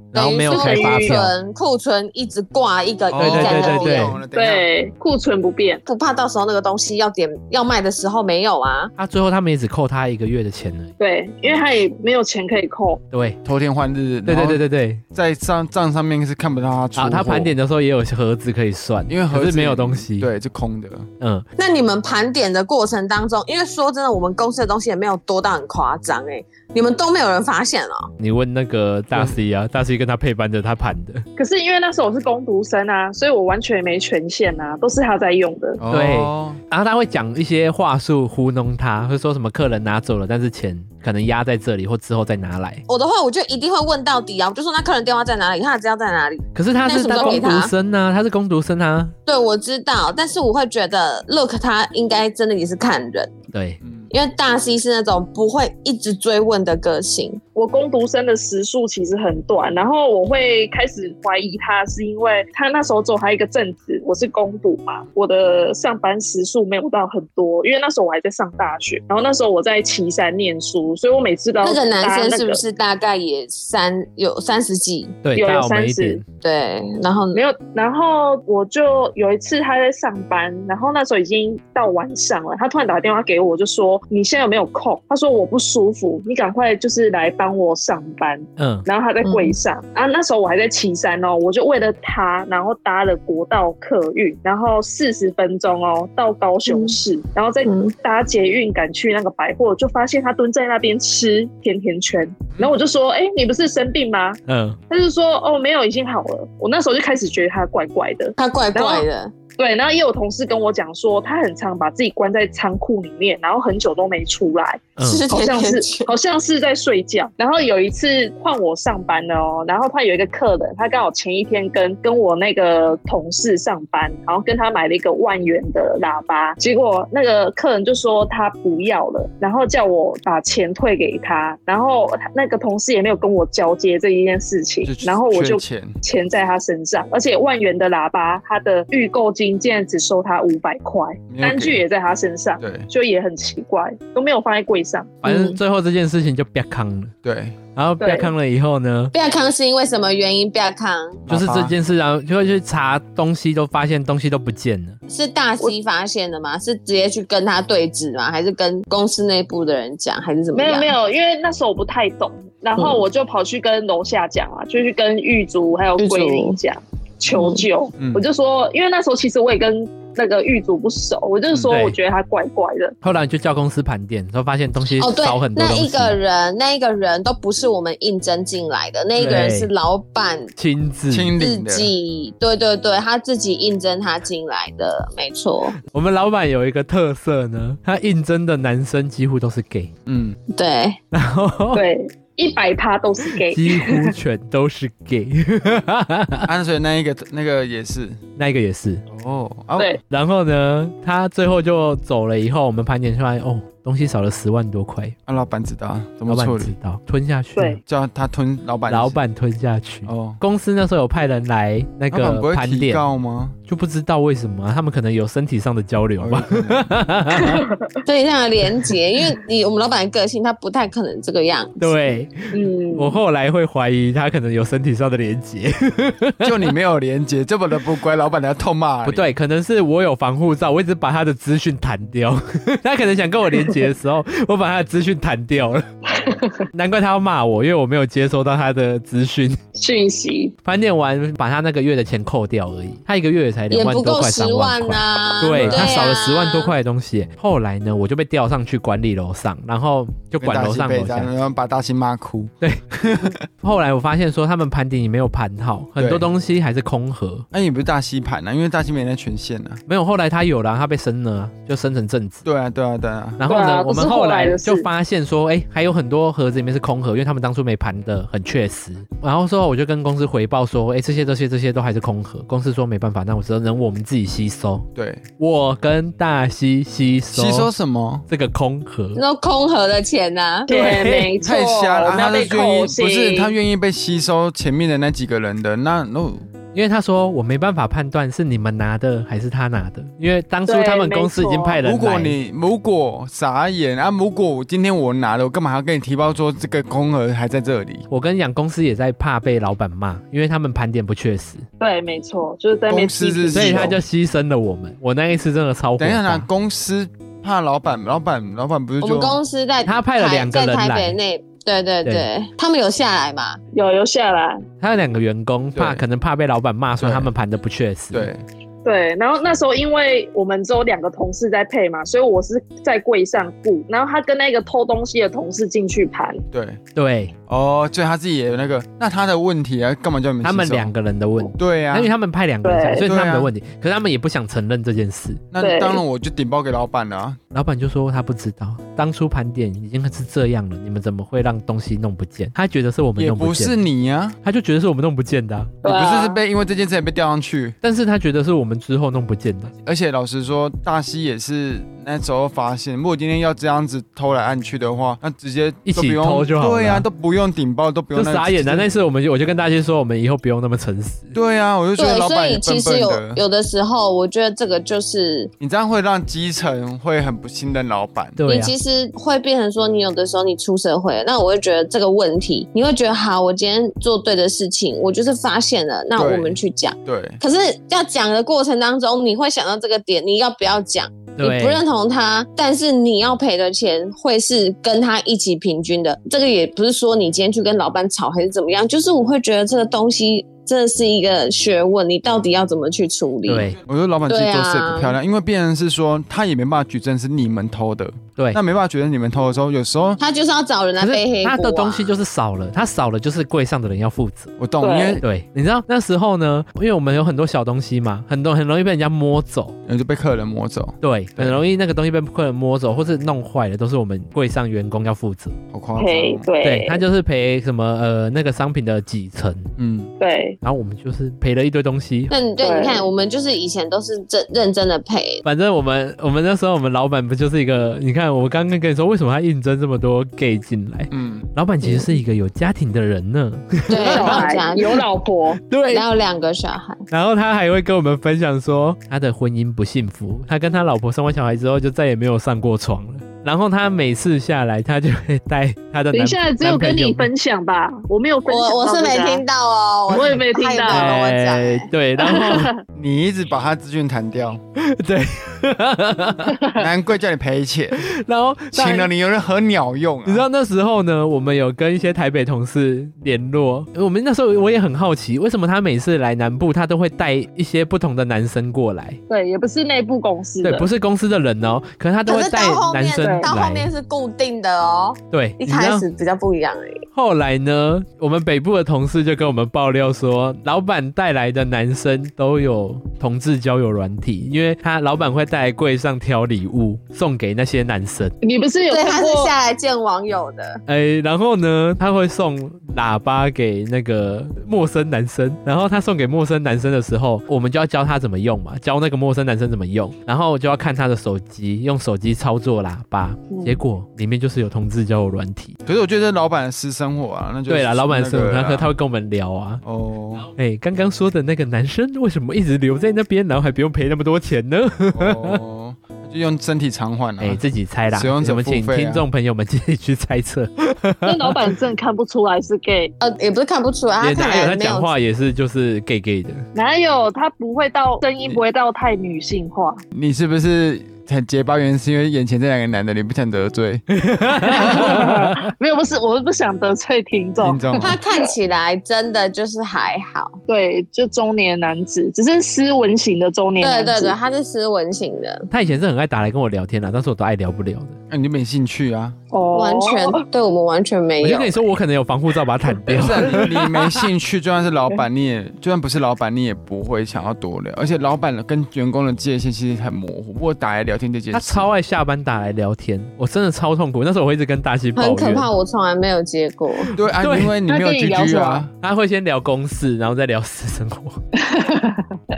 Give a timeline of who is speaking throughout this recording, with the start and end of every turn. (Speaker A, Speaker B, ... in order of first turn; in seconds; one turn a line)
Speaker A: 0.1-1.3
Speaker B: 0.1-4.2
Speaker C: 0.5-1.2
Speaker D: 3.1-4.7
Speaker A: 3.2-4.2
Speaker C: 4.3-5.8
Speaker B: 5.9-8.9
Speaker A: 9.0-10.9
Speaker C: 11.0-13.0
Speaker A: 13.1-13.4
Speaker D: 13.4-17.5
Speaker A: 14.2-15.0
Speaker A: 17.0-20.3
Speaker D: 19.1-21.1
Speaker B: 21.6-28.1
Speaker A: 28.2-31.2
Speaker D: 29.1-29.4
Speaker C: 31.4-35.8
Speaker D: 35.8-36.6
Speaker A: 35.9-42.8
Speaker B: 42.9-47.7
Speaker A: 46.5-49.1
Speaker C: 47.1-47.5
Speaker B: 49.2-53.3
Speaker A: 53.5-53.8
Speaker D: 53.8-54.1
Speaker B: 54.1-57.4
Speaker C: 57.5-72.6
Speaker B: 71.6-75.2
Speaker A: 75.2-76.2
Speaker C: 75.3-76.2
Speaker B: 76.4-77.4
Speaker C: 77.3-104.4
Speaker A: 88.6-88.9
Speaker B: 89.2-89.6
Speaker B: 96.7-97.0
Speaker B: 97.7-97.9
Speaker A: 104.5-104.8
Speaker C: 104.9-109.1
Speaker B: 108.4-109.3
Speaker C: 109.6-145.2
Speaker A: 115.0-115.2
Speaker B: 115.0-116.1
Speaker D: 134.8-135.9
Speaker D: 141.3-141.8
Speaker D: 142.6-142.9
Speaker A: 145.2-147.1
Speaker B: 145.2-145.6
Speaker D: 147.2-147.6
Speaker A: 147.8-149.1
Speaker C: 148.0-148.3
Speaker B: 149.1-151.2
Speaker D: 151.3-151.7
Speaker A: 151.3-155.0
Speaker B: 155.1-160.9
Speaker C: 160.5-172.9
Speaker B: 162.8-163.0
Speaker B: 166.0-166.6
Speaker B: 167.3-167.7
Speaker D: 168.0-168.2
Speaker A: 171.7-172.0
Speaker A: 173.0-176.2
Speaker B: 174.9-180.5
Speaker A: 179.2-179.7
Speaker A: 180.6-181.3
Speaker D: 181.1-181.9
Speaker B: 181.4-185.8
Speaker A: 185.9-189.9
Speaker D: 190.1-190.4
Speaker B: 190.5-191.0
Speaker A: 191.1-191.8
Speaker C: 191.7-194.1
Speaker A: 193.5-196.5
Speaker D: 196.4-198.2
Speaker A: 198.4-199.0
Speaker D: 199.1-199.9
Speaker A: 200.1-205.1
Speaker D: 205.3-206.7
Speaker A: 206.3-207.8
Speaker D: 207.8-209.2
Speaker A: 208.9-213.0
Speaker D: 210.1-210.4
Speaker D: 212.1-213.6
Speaker A: 213.7-217.6
Speaker D: 216.2-216.9
Speaker C: 217.3-217.9
Speaker B: 218.1-222.1
Speaker A: 221.8-226.7
Speaker C: 222.5-223.2
Speaker D: 226.4-229.3
Speaker A: 229.1-235.9
Speaker C: 236.1-236.6
Speaker A: 236.7-239.6
Speaker C: 239.8-240.5
Speaker A: 240.6-251.3
Speaker B: 243.7-246.7
Speaker D: 245.5-246.0
Speaker D: 250.4-253.4
Speaker A: 253.6-257.4
Speaker D: 256.0-256.2
Speaker D: 257.5-259.8
Speaker A: 259.9-262.4
Speaker D: 262.4-263.4
Speaker A: 263.4-274.9
Speaker C: 263.5-264.9
Speaker D: 274.9-275.2
Speaker A: 275.4-277.7
Speaker D: 277.3-278.3
Speaker A: 278.3-279.2
Speaker B: 279.1-280.7
Speaker C: 280.7-283.6
Speaker A: 280.7-281.4
Speaker D: 281.4-286.4
Speaker A: 286.7-292.4
Speaker C: 290.7-291.8
Speaker D: 291.8-298.1
Speaker A: 298.1-301.6
Speaker C: 301.8-303.9
Speaker D: 302.9-304.0
Speaker A: 303.5-306.4
Speaker D: 306.0-309.4
Speaker B: 309.0-313.6
Speaker A: 309.9-311.2
Speaker C: 313.7-314.6
Speaker A: 314.8-318.3
Speaker D: 315.8-316.0
Speaker D: 317.0-317.3
Speaker D: 318.1-318.4
Speaker C: 318.9-326.4
Speaker D: 326.5-326.8
Speaker A: 326.9-327.3
Speaker D: 327.5-330.9
Speaker A: 330.4-335.4
Speaker D: 331.6-332.1
Speaker C: 332.6-333.1
Speaker D: 333.1-333.5
Speaker D: 335.5-337.4
Speaker C: 335.6-336.0
Speaker A: 337.5-343.8
Speaker D: 343.2-344.4
Speaker A: 344.4-345.8
Speaker C: 345.8-346.4
Speaker D: 345.8-347.8
Speaker A: 347.8-349.7
Speaker D: 349.8-358.9
Speaker A: 355.9-357.1
Speaker A: 358.1-361.3
Speaker D: 361.3-363.4
Speaker B: 362.0-365.5
Speaker D: 365.6-368.4
Speaker A: 368.4-368.7
Speaker B: 368.5-393.7
Speaker D: 376.1-377.4
Speaker A: 381.4-381.8
Speaker A: 393.4-393.8
Speaker D: 393.8-400.2
Speaker B: 394.3-395.1
Speaker B: 400.2-402.2
Speaker A: 401.0-404.5
Speaker D: 404.6-405.2
Speaker C: 404.8-405.2
Speaker A: 405.2-409.8
Speaker D: 409.9-411.6
Speaker A: 411.0-415.6
Speaker D: 415.7-416.5
Speaker C: 416.0-417.0
Speaker A: 416.6-419.7
Speaker D: 419.8-420.1
Speaker C: 420.2-420.6
Speaker A: 420.6-422.3
Speaker B: 422.3-425.4
Speaker C: 422.6-423.1
Speaker A: 425.4-434.5
Speaker D: 431.1-431.5
Speaker B: 431.8-432.1
Speaker B: 433.9-435.0
Speaker C: 434.0-435.6
Speaker A: 435.7-436.0
Speaker B: 435.9-437.0
Speaker A: 437.1-447.3
Speaker C: 446.1-449.4
Speaker B: 448.5-451.9
Speaker C: 450.1-451.1
Speaker A: 450.9-452.7
Speaker C: 452.2-452.8
Speaker D: 452.9-454.6
Speaker A: 454.8-456.6
Speaker D: 456.7-458.1
Speaker A: 458.0-459.1
Speaker D: 458.7-460.4
Speaker A: 460.3-469.2
Speaker C: 469.3-470.9
Speaker A: 470.6-473.9
Speaker B: 472.3-477.1
Speaker C: 473.2-473.5
Speaker A: 475.3-476.1
Speaker A: 477.1-488.3
Speaker C: 488.4-489.5
Speaker B: 488.9-490.8
Speaker A: 490.9-505.8
Speaker C: 503.5-503.8
Speaker D: 505.9-508.9
Speaker A: 507.7-509.8
Speaker D: 509.8-510.5
Speaker A: 510.5-515.6
Speaker D: 515.1-519.2
Speaker A: 517.4-521.7
Speaker C: 521.2-523.1
Speaker B: 523.2-525.1
Speaker A: 524.2-526.6
Speaker C: 526.8-530.0
Speaker D: 530.1-534.1
Speaker A: 534.1-535.7
Speaker C: 534.6-538.5
Speaker D: 537.6-538.1
Speaker B: 538.0-540.6
Speaker C: 540.7-544.4
Speaker B: 543.8-545.7
Speaker A: 545.7-548.1
Speaker D: 548.3-549.4
Speaker C: 549.5-550.4
Speaker B: 549.7-551.8
Speaker A: 551.4-554.1
Speaker D: 553.1-561.9
Speaker A: 561.5-565.7
Speaker B: 565.1-567.1
Speaker A: 567.0-567.8
Speaker D: 567.1-568.9
Speaker C: 567.9-568.9
Speaker A: 569.0-571.4
Speaker C: 571.6-572.4